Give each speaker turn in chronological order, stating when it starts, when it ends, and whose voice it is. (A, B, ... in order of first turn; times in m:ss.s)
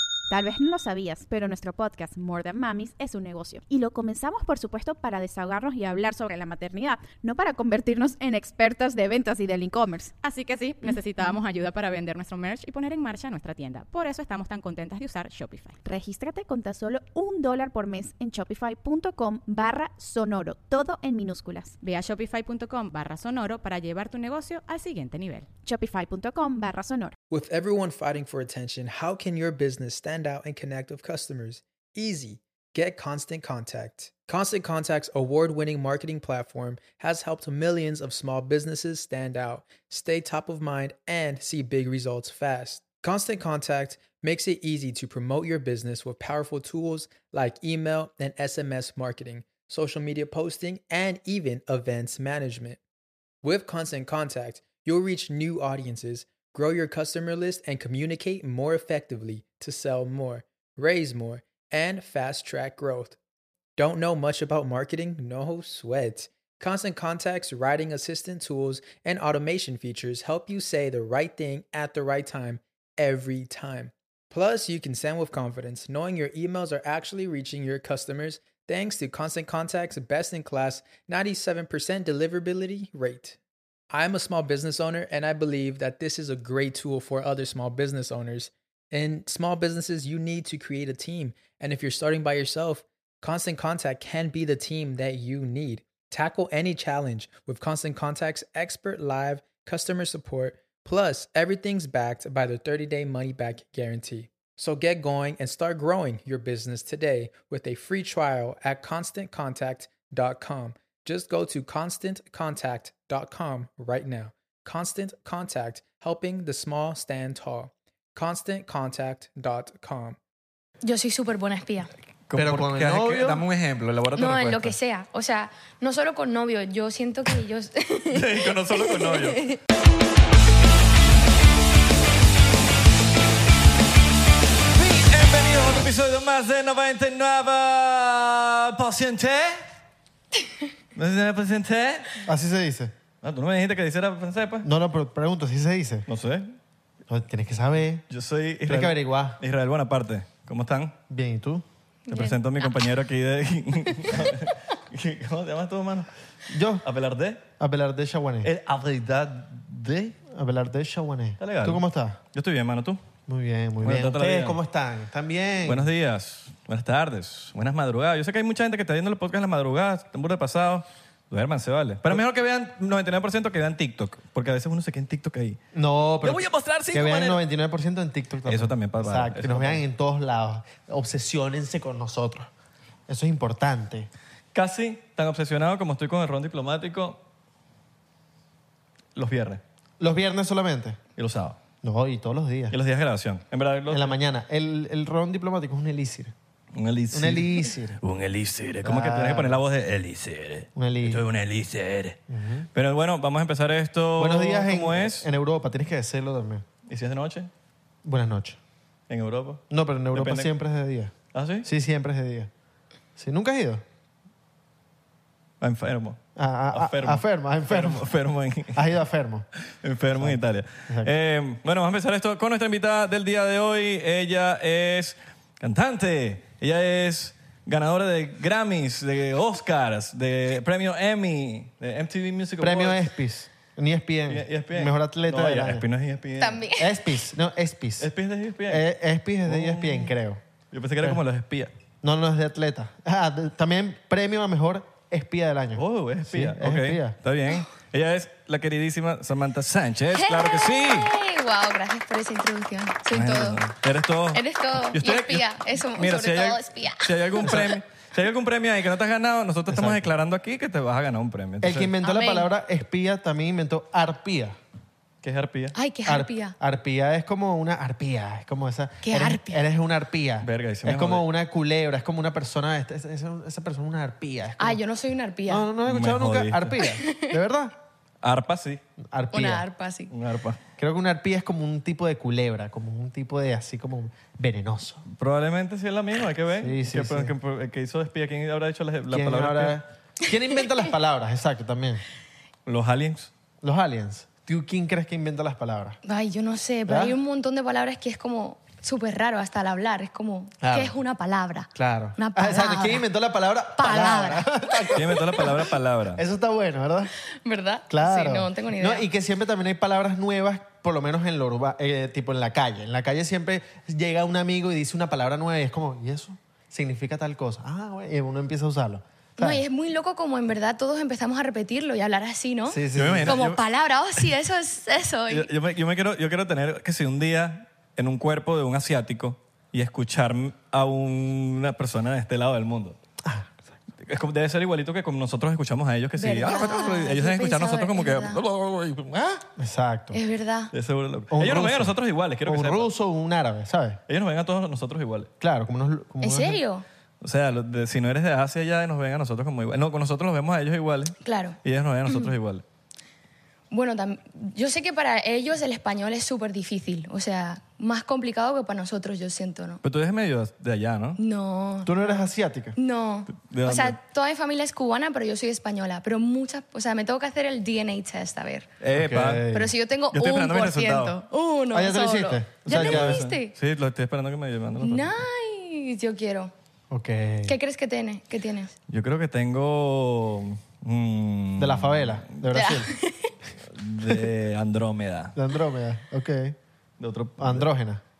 0:00.3-0:10.1 A
0:10.2-0:15.8 B
0:15.8-0:21.7 A
0:21.8-0:25.5 B
0:25.6-0:27.1 A
0:27.3-0:52.8 C
0:53.4-1:03.2 C
1:03.8-1:23.4 C
1:23.9-2:00.2 C
2:00.8-2:01.9 D
2:02.3-2:04.7 E
2:02.3-2:03.4 F
2:04.1-2:09.6 D
2:08.1-2:09.4 E
2:14.7-2:19.6 E
2:20.9-2:22.2 E
2:22.2-2:22.9 F
2:23.2-2:24.7 E
2:24.6-2:26.1 F
2:26.1-2:26.5 E
2:27.1-2:28.0 F
2:28.1-2:30.9 E
2:28.6-2:29.4 F
2:31.1-2:31.6 F
2:32.1-2:32.9 D
2:32.1-2:36.1 E
2:34.0-2:34.3 D
2:36.5-2:36.8 F
2:36.8-2:37.4 E
2:37.6-2:38.6 F
2:38.4-2:39.9 E
2:39.3-2:42.2 F
2:41.4-2:43.0 E
2:43.3-2:45.9 F
2:43.8-2:44.6 E
2:45.6-2:55.6 E
2:55.7-3:02.5 F
2:56.2-2:57.4 E
2:58.4-2:59.8 E
3:03.1-3:04.1 F
3:04.5-3:07.2 E
3:09.2-3:09.6 E
3:10.0-3:11.0 F
3:11.2-3:11.6 E
3:11.8-3:12.8 F
3:12.7-3:14.1 E
3:13.9-3:16.3 F
3:16.7-3:22.2 E
3:17.1-3:18.0 F
3:18.8-3:19.6 F
3:20.7-3:21.2 F
3:22.3-3:22.7 F
3:22.7-3:25.3 E
3:24.2-3:26.6 F
3:26.9-3:27.5 E
3:28.0-3:28.6 F
3:29.1-3:29.6 E
3:29.7-3:32.5 F
3:30.1-3:30.5 E
3:31.3-3:31.7 E
3:33.2-3:33.8 F
3:35.6-3:36.2 E
3:36.4-3:38.0 F
3:36.7-3:38.9 E
3:38.7-3:39.4 F
3:39.8-3:53.0 E
3:40.1-3:41.1 F
3:52.6-3:55.8 F
3:54.3-3:56.6 E
3:56.4-3:56.9 D
3:56.8-3:58.1 F
3:58.0-3:58.8 E
3:58.7-4:00.4 F
3:59.5-4:00.1 E
4:00.7-4:01.7 E
4:02.0-4:07.2 F
4:05.8-4:11.1 E
4:10.1-4:13.6 D
4:13.1-4:21.9 E
4:14.3-4:17.5 D
4:17.4-4:17.8 F
4:19.7-4:20.1 F
4:21.6-4:24.6 F
4:22.0-4:22.5 D
4:25.2-4:25.7 E
4:25.7-4:26.5 D
4:26.0-4:34.8 F
4:29.0-4:29.6 D
4:30.4-4:31.2 E
4:34.6-4:35.7 D
4:35.5-4:37.7 F
4:35.8-4:36.7 E
4:36.8-4:37.3 D
4:38.2-4:38.8 E
4:39.1-4:39.6 F
4:39.3-4:40.1 D
4:40.1-4:40.6 E
4:40.8-4:45.0 F
4:45.1-4:49.8 E
4:46.6-4:47.3 F
4:49.1-4:52.0 F
4:52.6-4:53.3 E
4:53.6-4:56.0 F
4:56.0-5:03.0 D
4:56.9-4:57.2 F
5:00.6-5:01.0 F
5:01.8-5:05.6 F
5:03.8-5:05.2 D
5:05.0-5:06.2 E
5:06.1-5:07.1 F
5:07.4-5:09.0 D
5:07.9-5:19.6 F
5:19.4-5:25.5 D
5:22.6-5:23.5 F
5:23.0-5:23.6 E
5:25.3-5:33.0 E
5:33.2-5:33.5 F
5:34.0-5:39.4 E
5:36.2-5:38.4 D
5:39.6-5:40.2 F
5:40.1-5:40.7 D
5:40.7-5:42.9 E
5:41.3-5:44.0 F
5:44.1-5:45.3 E
5:45.4-5:46.6 F
5:46.2-5:46.8 D
5:47.2-5:52.6 E
5:51.2-5:52.3 D
5:53.7-5:59.8 D
5:59.8-6:01.2 E
6:01.2-6:08.7 D
6:01.8-6:02.8 F
6:03.3-6:04.0 E
6:08.8-6:09.5 E
6:08.9-6:09.7 F
6:09.5-6:13.5 D
6:10.1-6:11.2 E
6:11.7-6:13.2 F
6:12.6-6:15.1 E
6:14.8-6:16.5 D
6:16.9-6:17.6 F
6:17.4-6:18.7 D
6:18.9-6:22.4 E
6:21.6-6:22.9 F
6:22.5-6:23.3 D
6:23.7-6:25.3 E
6:25.4-6:26.6 F
6:27.0-6:27.7 E
6:27.4-6:28.0 F